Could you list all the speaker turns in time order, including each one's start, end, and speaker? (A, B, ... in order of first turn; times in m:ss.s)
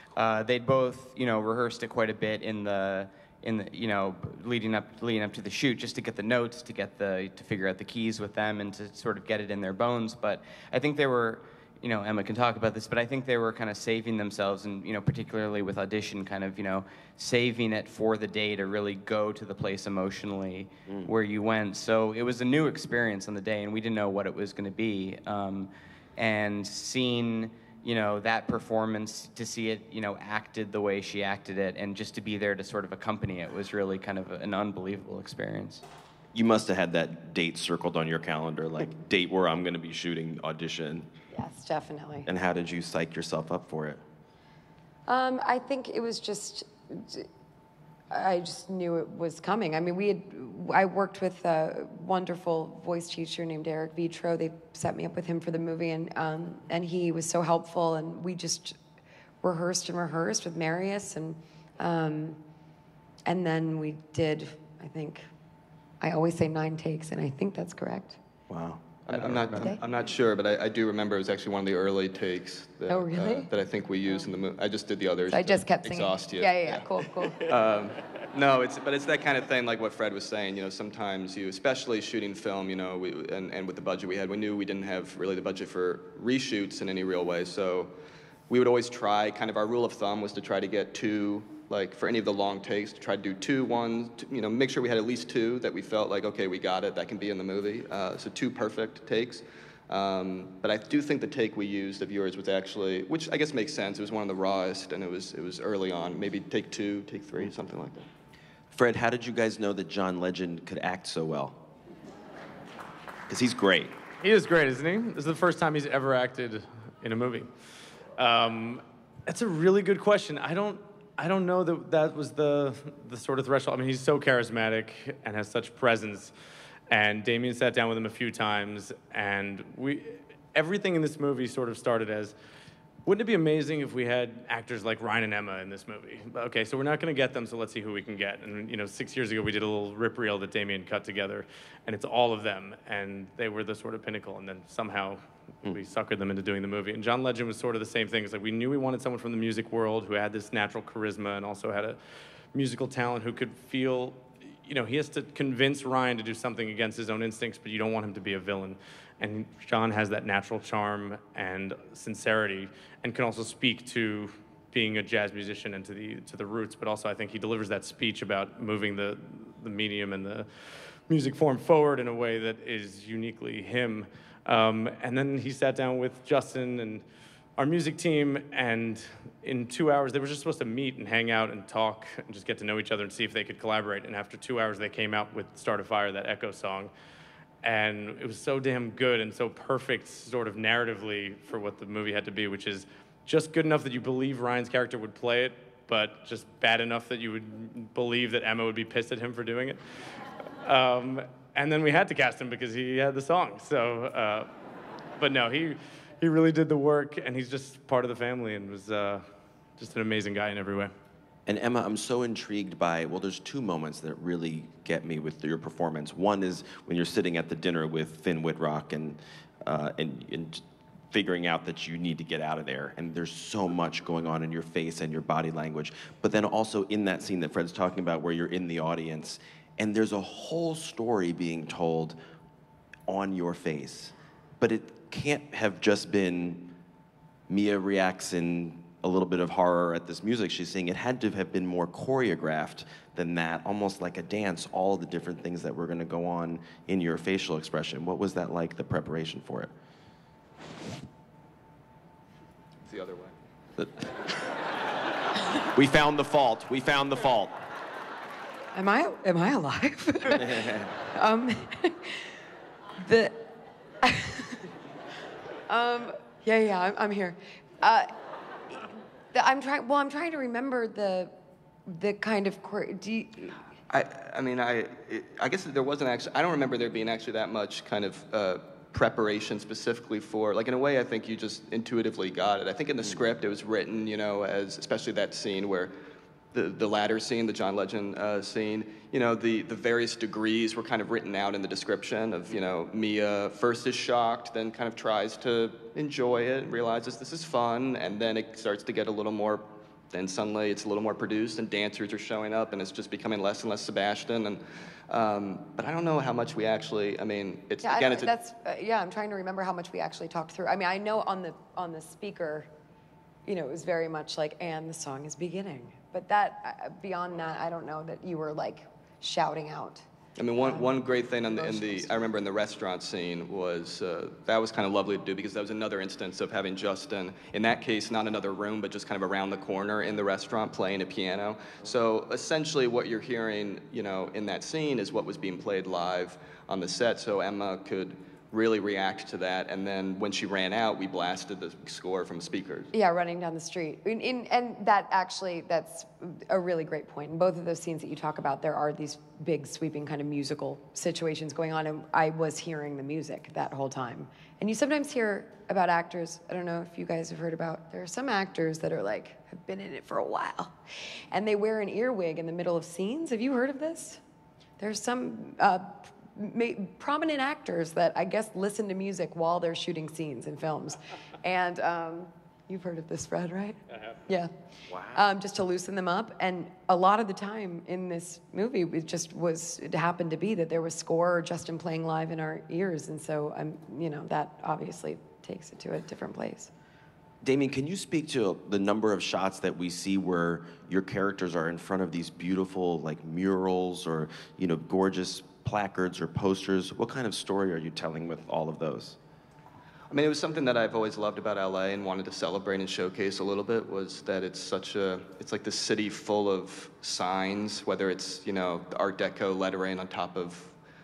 0:00.2-0:35.8 A
0:36.3-0:41.1 B
0:41.3-0:42.3 C
0:42.3-0:44.0 B
0:45.1-0:47.3 C
0:48.1-0:58.8 C
0:59.4-1:02.4 C
1:03.2-1:05.2 C
1:06.0-1:08.2 C
1:08.5-1:09.7 B
1:09.1-1:16.8 D
1:12.9-1:13.5 C
1:15.3-1:17.5 C
1:17.4-1:27.9 D
1:28.5-1:48.1 D
1:48.7-1:51.6 B
1:53.3-1:53.9 B
1:54.2-1:57.5 E
1:58.2-2:06.3 E
2:06.9-2:12.3 E
2:13.0-2:32.0 E
2:32.5-2:50.5 E
2:51.1-2:57.0 E
2:57.6-3:06.9 E
3:07.6-3:19.8 E
3:20.6-3:24.5 E
3:25.2-3:29.2 E
3:29.8-3:30.9 E
3:31.4-3:52.2 B
3:53.1-3:56.7 B
3:57.5-4:09.7 B
4:12.8-4:13.4 D
4:13.8-4:14.1 B
4:15.7-4:17.5 B
4:18.7-4:22.3 C
4:23.0-4:23.4 C
4:24.0-4:24.7 C
4:25.7-4:28.1 C
4:28.7-4:31.3 C
4:31.8-4:33.6 C
4:33.9-4:45.9 D
4:46.5-5:08.3 D
5:07.8-5:12.7 C
5:13.4-5:20.0 C
5:20.4-5:42.9 D
5:20.6-5:22.3 C
5:42.9-6:00.7 C
6:01.3-6:04.2 C
6:04.8-6:14.5 C
6:14.9-6:15.2 B
6:15.1-6:26.7 C
6:27.4-6:39.2 B
6:40.1-6:50.7 D